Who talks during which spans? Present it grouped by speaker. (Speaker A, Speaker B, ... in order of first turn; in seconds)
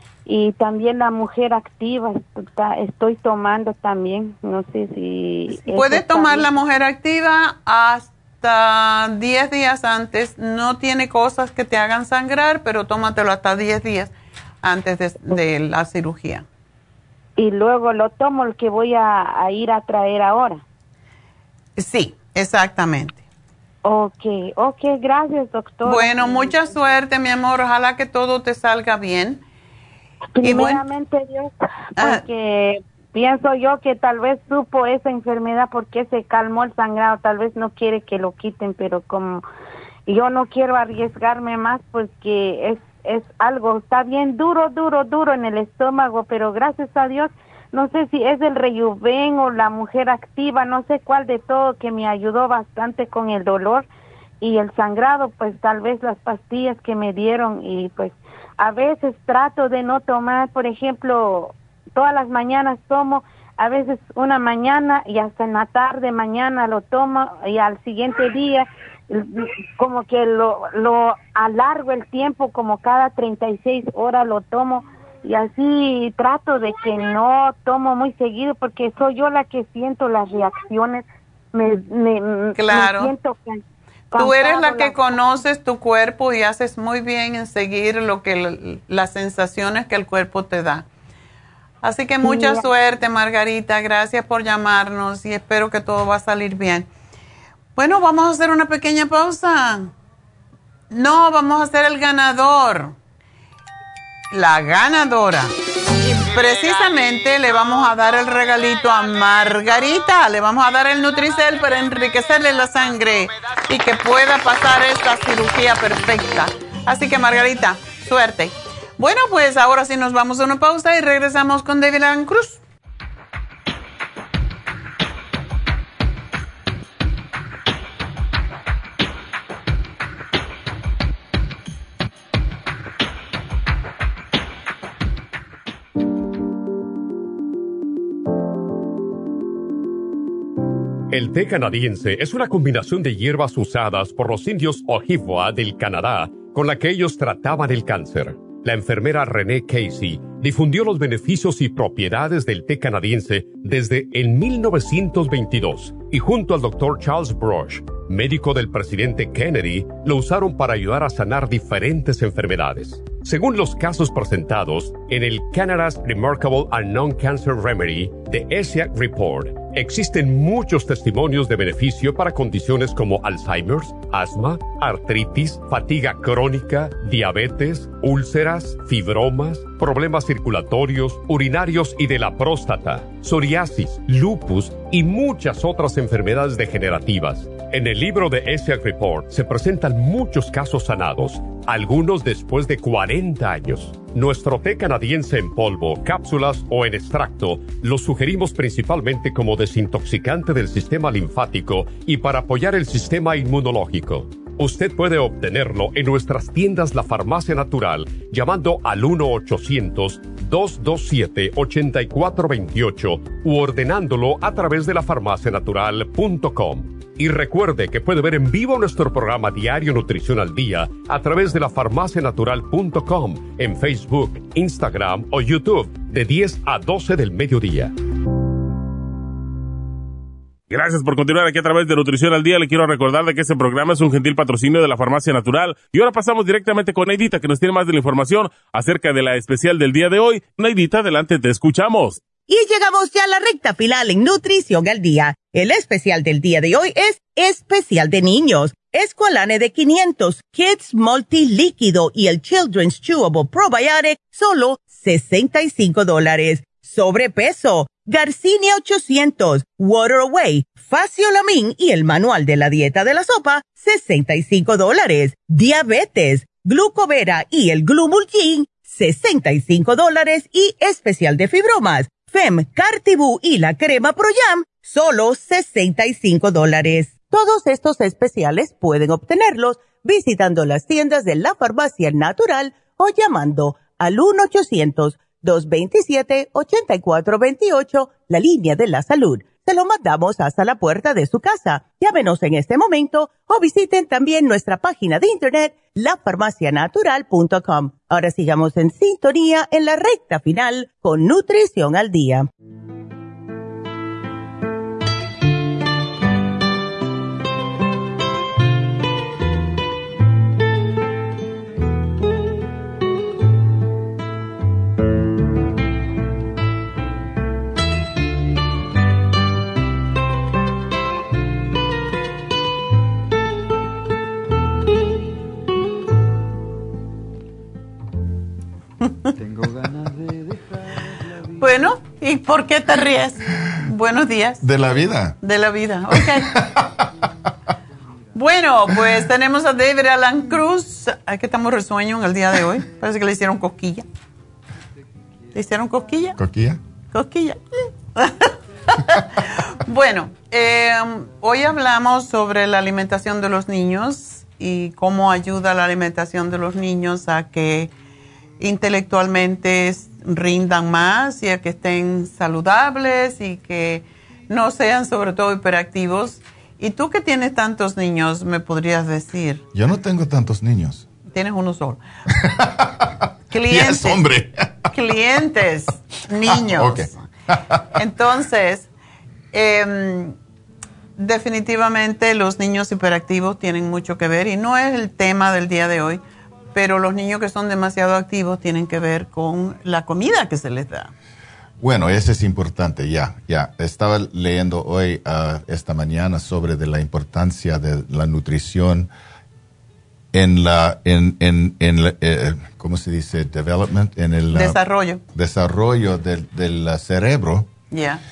Speaker A: 0.2-6.5, 17.4-20.6, 23.8-26.9, 30.4-39.4, 40.1-53.9, 54.4-85.2, 92.2-92.7
Speaker B: 5.5-16.4, 21.8-23.2, 25.8-29.4, 30.4-30.8, 32.0-32.2, 82.5-83.1, 84.2-90.8, 91.8-96.9, 97.8-99.9, 100.9-103.0, 104.3-122.6, 329.0-329.3, 331.5-334.6, 335.4-336.6, 338.3-344.0, 345.5-346.4, 347.1-347.6, 348.1-357.9, 358.6-369.6, 371.3-372.0, 373.5-374.3, 374.9-377.2, 377.9-378.9, 379.5-380.4, 381.2-386.2, 386.7-391.1, 404.5-405.2, 407.9-408.2
Speaker C: 141.1-227.9
Speaker D: 230.7-242.2
Speaker E: 242.5-302.5
Speaker F: 334.6-335.4, 336.2-336.6, 346.4-346.8, 369.7-371.1, 372.5-373.1, 373.6-374.9, 376.7-377.1, 391.8-399.1, 400.3-404.8, 405.3-407.7